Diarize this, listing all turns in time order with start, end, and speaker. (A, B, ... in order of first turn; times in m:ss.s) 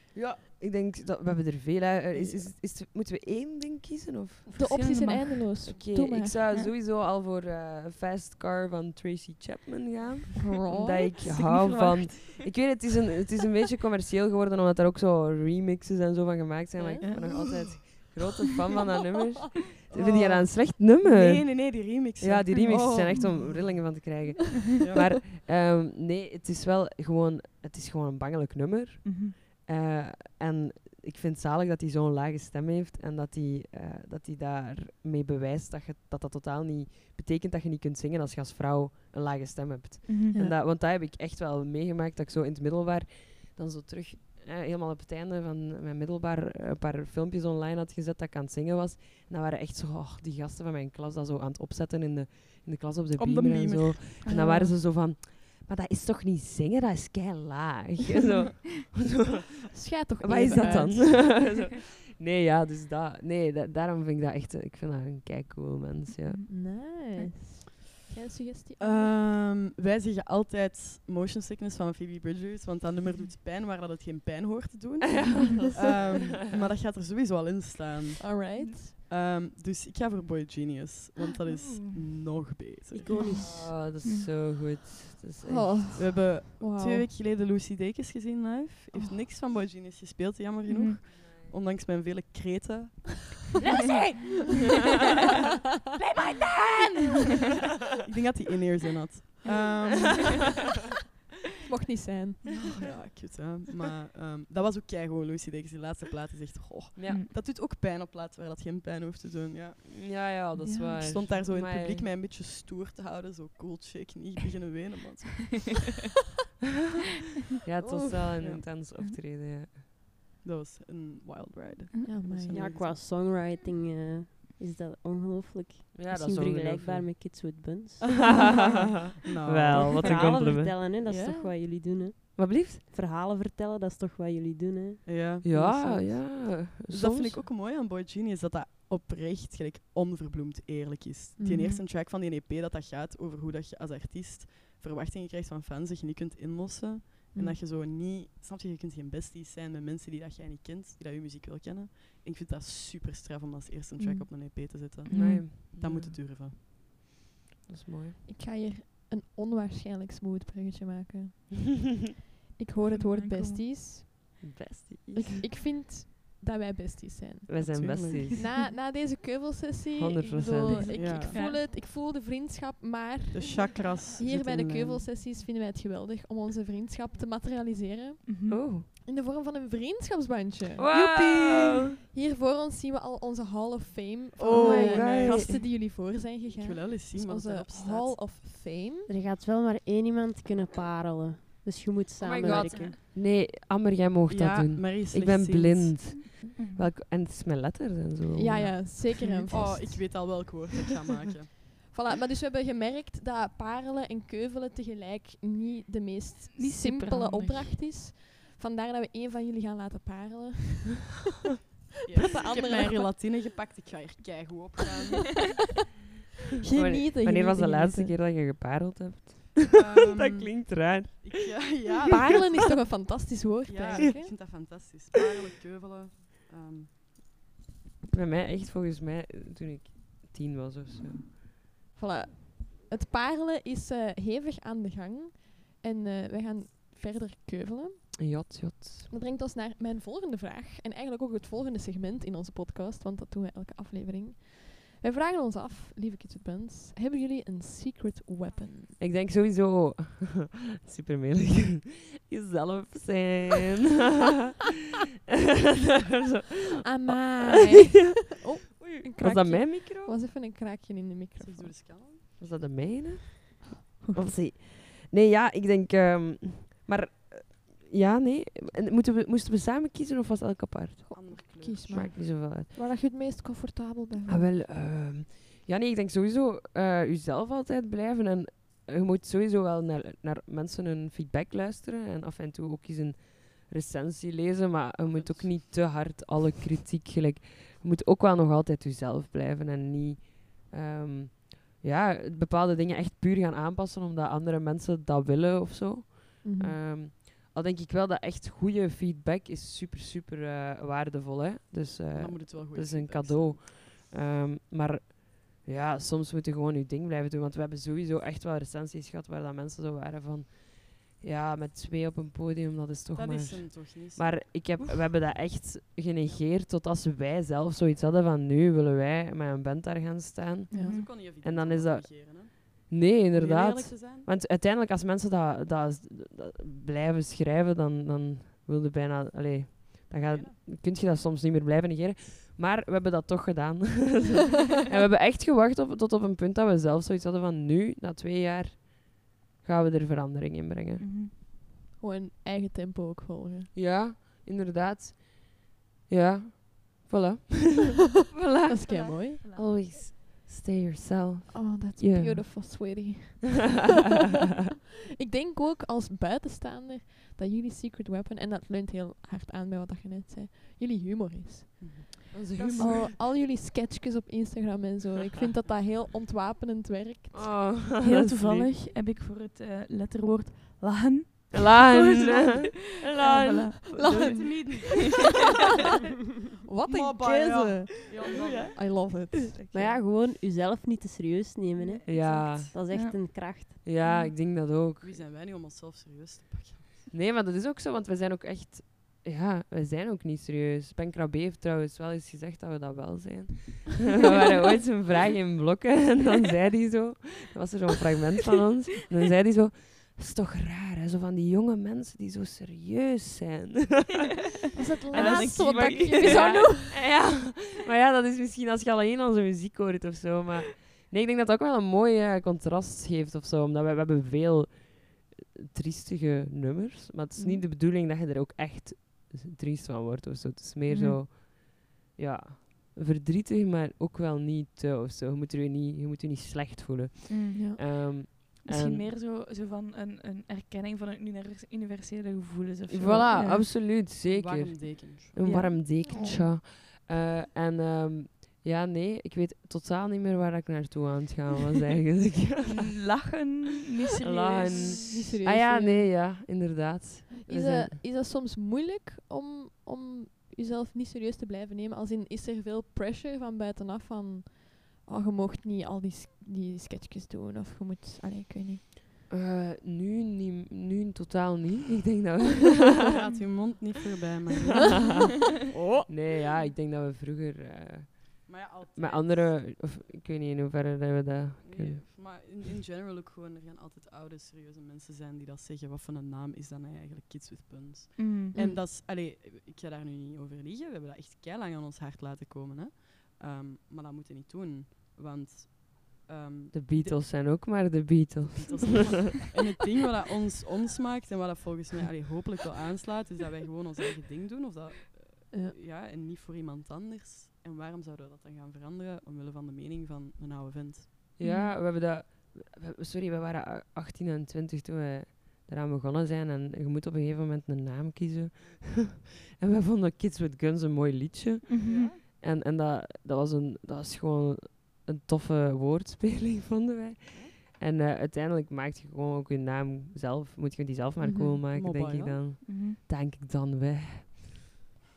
0:00.1-0:04.5 A
0:02.1-0:02.4 B
0:04.5-0:06.4 C
0:04.6-0:05.6 D
0:05.6-1:06.4 A
0:10.4-0:11.1 C
0:11.2-0:12.4 D
0:16.8-0:17.2 C
0:17.0-0:17.3 D
0:19.9-0:24.0 B
0:22.5-0:23.4 D
0:29.0-0:29.4 D
0:40.0-0:40.3 D
0:53.2-0:54.2 B
0:54.2-0:54.7 D
0:54.3-0:54.7 C
0:59.7-1:01.3 C
1:06.2-1:06.6 D
1:06.5-1:09.2 C
1:08.8-1:23.4 B
1:15.1-1:16.0 A
1:18.2-1:18.9 C
1:21.4-1:22.1 D
1:23.0-1:23.7 E
1:23.2-1:24.3 D
1:23.4-1:25.9 A
1:25.4-1:27.1 C
1:25.9-1:33.4 B
1:30.7-1:31.0 D
1:31.1-1:31.5 A
1:33.7-1:34.3 C
1:36.0-1:37.1 A
1:37.8-1:40.5 B
1:41.6-1:42.6 C
1:42.8-1:50.4 B
1:46.9-1:47.2 A
1:47.1-1:47.3 D
1:49.9-1:52.1 A
1:50.6-1:51.4 D
1:51.0-1:55.8 B
1:57.6-1:59.8 A
1:58.4-1:58.7 B
2:00.4-2:03.0 B
2:01.9-2:02.2 D
2:02.0-2:02.7 C
2:02.3-2:08.6 E
2:05.9-2:07.1 A
2:09.2-2:10.4 B
2:09.4-2:10.8 A
2:09.9-2:16.1 E
2:11.1-2:11.4 B
2:11.1-2:11.5 C
2:12.4-2:12.8 A
2:15.0-2:15.4 B
2:15.4-2:17.4 A
2:16.2-2:36.6 B
2:21.4-2:21.8 C
2:27.3-2:27.6 C
2:34.0-2:34.3 C
2:35.0-2:35.5 D
2:35.1-2:36.2 A
2:37.6-2:38.2 A
2:38.2-2:41.8 C
2:42.6-2:44.4 C
2:42.8-2:43.7 D
2:44.4-2:45.5 A
2:45.2-3:00.9 C
2:47.5-2:48.4 A
2:47.6-2:48.4 B
2:50.0-2:51.2 A
2:50.6-2:51.6 D
2:50.9-2:51.3 B
2:53.3-2:55.0 B
2:58.2-2:58.6 D
2:58.5-2:58.8 A
3:00.8-3:01.8 A
3:00.9-3:01.6 B
3:02.1-3:09.1 C
3:04.4-3:08.3 B
3:04.5-3:05.6 A
3:04.5-3:05.0 E
3:09.1-3:13.0 E
3:12.2-3:19.0 A
3:12.5-3:13.0 B
3:14.3-3:16.0 B
3:16.4-3:16.9 D
3:18.4-3:20.4 C
3:19.5-3:21.5 B
3:21.8-3:31.2 C
3:26.5-3:27.8 D
3:32.0-3:35.6 B
3:32.2-3:33.1 C
3:36.6-3:38.1 C
3:36.7-3:41.8 A
3:39.7-3:42.5 B
3:42.0-3:44.3 C
3:43.6-3:46.9 B
3:48.1-3:51.4 A
3:51.9-3:58.4 C
3:58.2-3:59.1 A
3:59.1-4:09.0 C
4:09.0-4:13.9 A
4:16.8-4:21.9 C
4:17.1-4:18.2 A
4:18.8-4:20.1 A
4:21.4-4:22.2 B
4:22.4-4:32.7 A
4:23.9-4:24.3 C
4:31.1-4:34.5 C
4:31.1-4:32.0 B
4:34.3-5:41.0 A
4:45.0-4:45.6 B
4:56.4-4:56.8 C
5:02.1-5:03.6 B
5:13.1-5:15.0 B
5:20.7-5:21.0 C
5:20.7-5:24.3 B
5:20.9-5:21.1 D
5:30.1-5:30.6 B
5:41.0-5:41.3 D
5:42.0-5:43.7 C
5:43.7-5:53.0 A
5:48.7-5:49.4 C
5:48.9-5:49.7 D
5:51.5-5:53.8 C
5:55.2-6:07.7 C
6:01.8-6:02.9 B
6:02.3-6:03.1 A
6:07.3-6:08.7 A
6:08.0-6:15.0 D
6:11.5-6:14.2 A
6:13.9-6:14.8 C
6:14.1-6:15.1 B
6:16.6-6:18.2 C
6:16.9-6:18.8 B
6:18.3-6:20.0 A
6:18.7-6:19.6 C
6:19.7-6:23.7 E
6:21.8-6:23.3 D
6:22.0-6:22.8 A
6:23.8-6:25.2 A
6:24.0-6:24.4 D
6:25.0-6:27.1 B
6:27.1-6:44.4 A
6:44.8-6:46.8 C
6:44.8-6:47.0 D
6:45.1-7:09.1 A
6:57.3-6:57.7 C
7:00.9-7:01.2 D
7:07.3-7:07.7 D
7:07.5-7:07.8 C
7:08.6-7:13.5 D
7:12.9-7:22.9 A
7:13.3-7:13.6 C
7:14.2-7:15.5 B
7:15.4-7:16.3 D
7:16.1-7:16.4 C
7:22.6-7:25.0 D
7:24.2-7:28.0 A
7:25.0-7:26.2 C
7:27.4-7:38.8 C
7:39.3-7:43.2 A
7:43.2-7:45.1 B
7:45.8-7:46.1 B
7:46.1-7:52.1 A
7:48.5-7:49.7 B
7:51.6-8:07.5 B
7:58.2-7:58.6 D
7:58.6-7:58.8 C
8:06.7-8:09.3 A
8:08.5-8:21.1 B
8:21.4-8:44.4 A
8:21.4-8:21.8 D
8:31.7-8:32.1 D
8:31.8-8:32.2 B
8:41.2-8:41.6 C
8:41.7-8:42.5 B
8:42.6-8:43.0 D